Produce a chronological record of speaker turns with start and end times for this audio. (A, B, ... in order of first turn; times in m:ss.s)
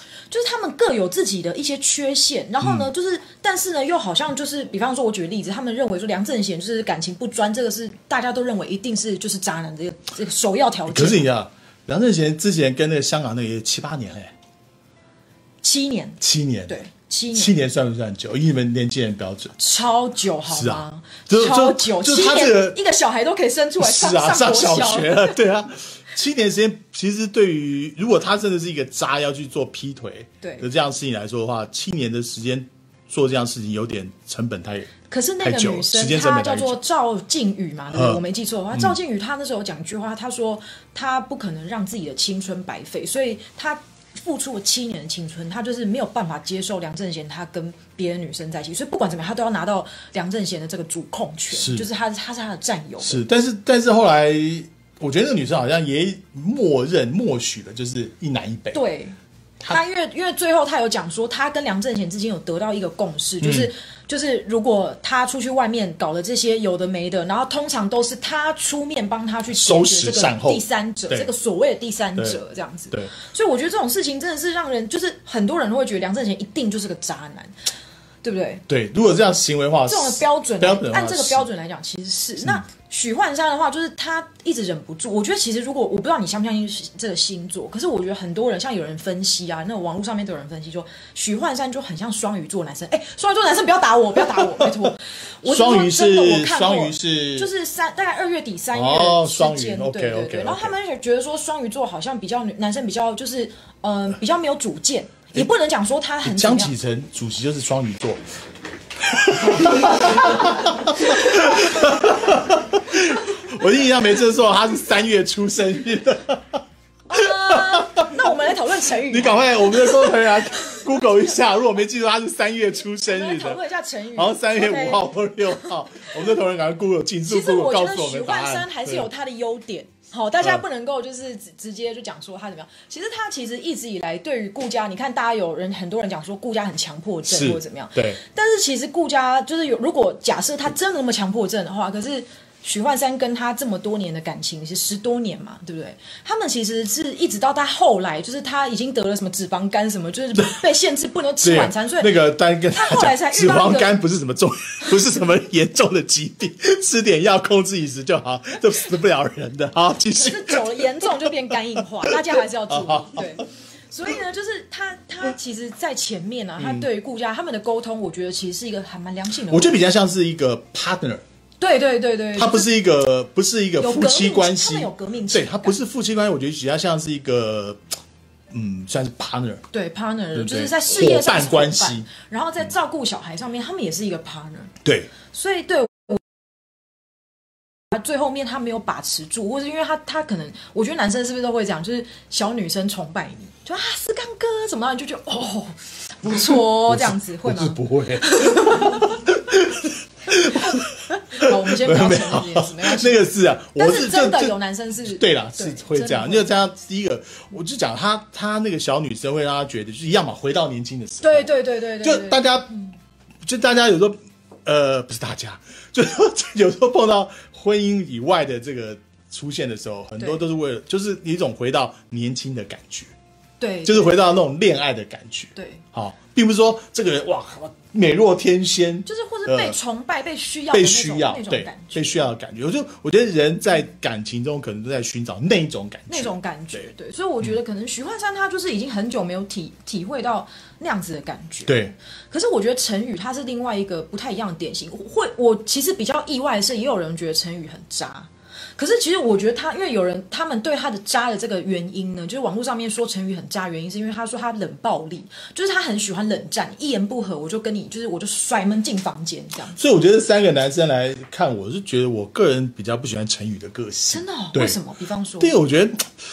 0:00.3-0:11.3 A
0:02.6-0:02.9 B
0:10.9-0:14.3 B
0:15.6-0:17.5 A
0:16.2-0:16.8 B
0:17.3-0:19.6 B
0:19.6-0:25.4 A
0:20.5-0:22.8 B
0:23.8-0:36.8 B
0:30.4-0:30.7 A
0:35.1-0:53.2 A
0:37.9-0:38.2 B
0:51.5-0:51.9 B
0:53.0-0:58.8 B
0:58.7-0:59.2 A
0:59.7-1:17.5 A
1:03.4-1:03.7 B
1:09.5-1:11.3 B
1:18.2-1:18.6 A
1:18.7-1:21.5 B
1:19.9-1:46.7 A
1:22.4-1:22.7 B
1:35.4-1:37.5 B
1:38.7-1:40.8 B
1:46.2-1:48.2 B
1:49.0-1:56.6 B
1:57.1-2:00.1 A
1:57.2-1:58.1 B
1:59.1-2:03.6 B
2:03.1-2:05.1 A
2:04.2-2:09.1 B
2:07.3-2:32.2 A
2:17.3-2:18.2 B
2:31.4-2:41.0 B
2:32.7-2:34.0 A
2:40.1-2:49.8 A
2:42.1-2:43.4 B
2:46.6-2:46.9 B
2:49.5-2:51.2 B
2:51.6-2:52.7 A
2:52.4-2:57.8 B
2:53.8-2:55.8 A
2:58.5-2:59.6 B
2:59.7-3:04.7 A
3:00.4-3:02.1 B
3:04.8-3:05.1 B
3:05.3-3:06.2 A
3:07.9-3:19.2 A
3:16.3-3:32.7 B
3:21.3-3:26.5 A
3:31.2-3:32.9 A
3:33.4-3:43.1 B
3:43.6-3:44.2 A
3:43.8-3:49.8 B
3:45.6-3:45.8 A
3:49.1-3:52.2 A
3:50.7-3:56.9 B
3:56.1-4:19.8 A
4:01.7-4:01.9 B
4:19.8-4:24.8 B
4:24.1-4:25.6 A
4:25.4-4:26.1 B